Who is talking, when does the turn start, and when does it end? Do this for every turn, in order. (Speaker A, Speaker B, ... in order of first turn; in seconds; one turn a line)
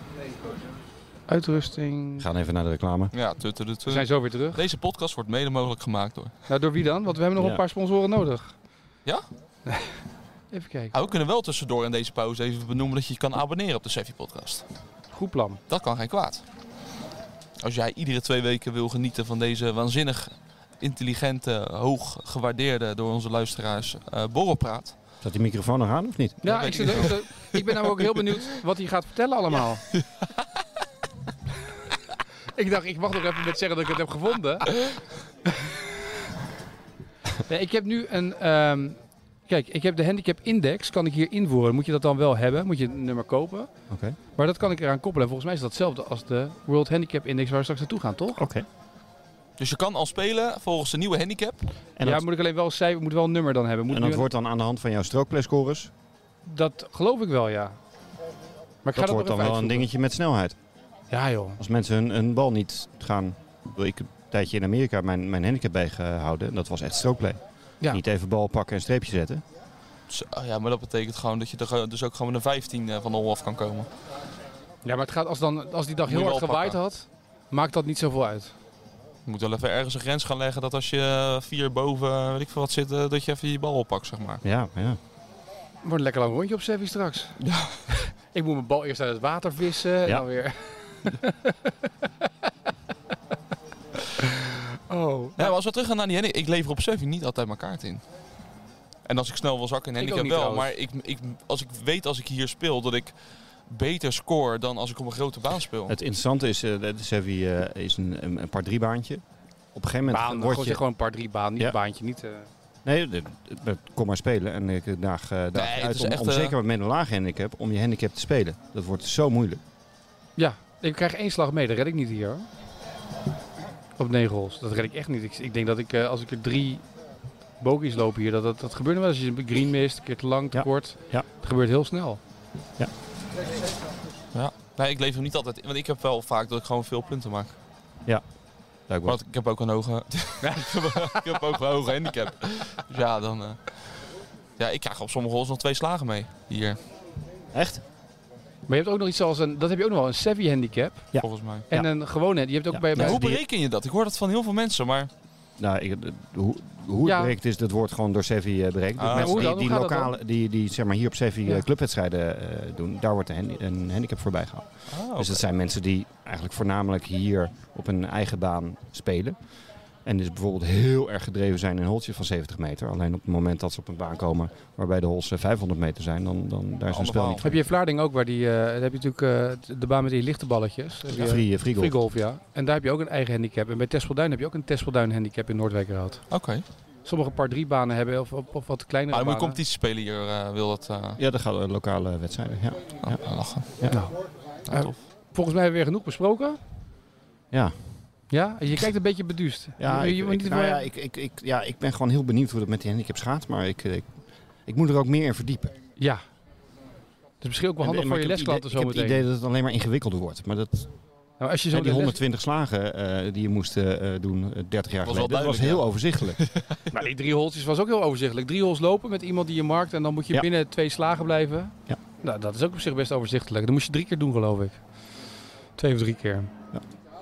Speaker A: 1.3-2.3
Speaker B: 2.2-3.1
Speaker C: 3.1-6.3
Speaker A: 3.9-4.6
Speaker A: 6.5-8.5
Speaker A: 9.7-10.0
Speaker A: 10.5-10.9
Speaker C: 10.9-14.7
Speaker A: 15.1-15.6
Speaker C: 15.7-16.4
Speaker C: 17.6-25.0
Speaker B: 25.2-27.1
Speaker A: 26.4-29.9
Speaker C: 26.4-27.6
Speaker C: 29.9-30.3
Speaker A: 32.5-34.7
Speaker A: 37.5-43.7
Speaker B: 43.9-44.2
Speaker A: 44.3-48.4
Speaker B: 48.4-48.7
Speaker C: 49.6-51.7
Speaker B: 52.0-52.2
Speaker A: 52.0-54.2
Speaker B: 53.9-55.9
Speaker A: 56.4-57.8
Speaker A: 58.8-59.9
Speaker B: 58.9-60.5
Speaker A: 61.1-61.6
Speaker B: 61.6-69.4
Speaker C: 70.1-73.9
Speaker A: 74.8-78.5
Speaker C: 76.1-76.8
Speaker C: 79.2-84.4
Speaker B: 84.4-85.0
Speaker A: 85.8-91.5
Speaker C: 87.4-87.8
Speaker A: 94.2-95.5
Speaker C: 95.4-98.0
Speaker C: 99.0-103.2
Speaker A: 100.0-100.7
Speaker C: 103.7-105.9
Speaker B: 105.9-109.2
Speaker B: 109.7-110.8
Speaker A: 110.1-112.5
Speaker B: 112.8-119.6
Speaker C: 115.5-116.5
Speaker A: 120.3-122.5
Speaker A: 124.0-126.8
Speaker A: 127.6-132.2
Speaker B: 130.5-131.2
Speaker C: 134.3-137.6
Speaker B: 138.9-139.2
Speaker C: 139.0-144.0
Speaker A: 140.4-141.4
Speaker C: 144.6-146.8
Speaker B: 147.5-147.8
Speaker A: 148.7-153.2
Speaker B: 151.1-151.9
Speaker C: 151.2-151.7
Speaker B: 152.7-153.4
Speaker C: 153.0-155.1
Speaker B: 155.6-169.4
Speaker A: 157.0-157.3
Speaker C: 159.0-159.5
Speaker A: 159.1-160.1
Speaker C: 164.9-165.4
Speaker B: 170.0-177.6
Speaker C: 176.9-177.4
Speaker A: 177.4-186.4
Speaker B: 181.1-182.0
Speaker C: 186.3-186.6
Speaker A: 187.0-189.6
Speaker C: 189.1-191.2
Speaker B: 191.2-193.2
Speaker C: 193.0-193.7
Speaker B: 193.8-194.0
Speaker A: 193.9-196.6
Speaker C: 194.7-195.0
Speaker B: 197.5-197.8
Speaker A: 198.3-200.8
Speaker B: 199.8-205.7
Speaker A: 207.4-209.2
Speaker B: 207.8-210.9
Speaker A: 211.4-212.2
Speaker B: 211.7-216.4
Speaker C: 215.0-216.8
Speaker A: 216.9-224.8
Speaker A: 225.8-226.5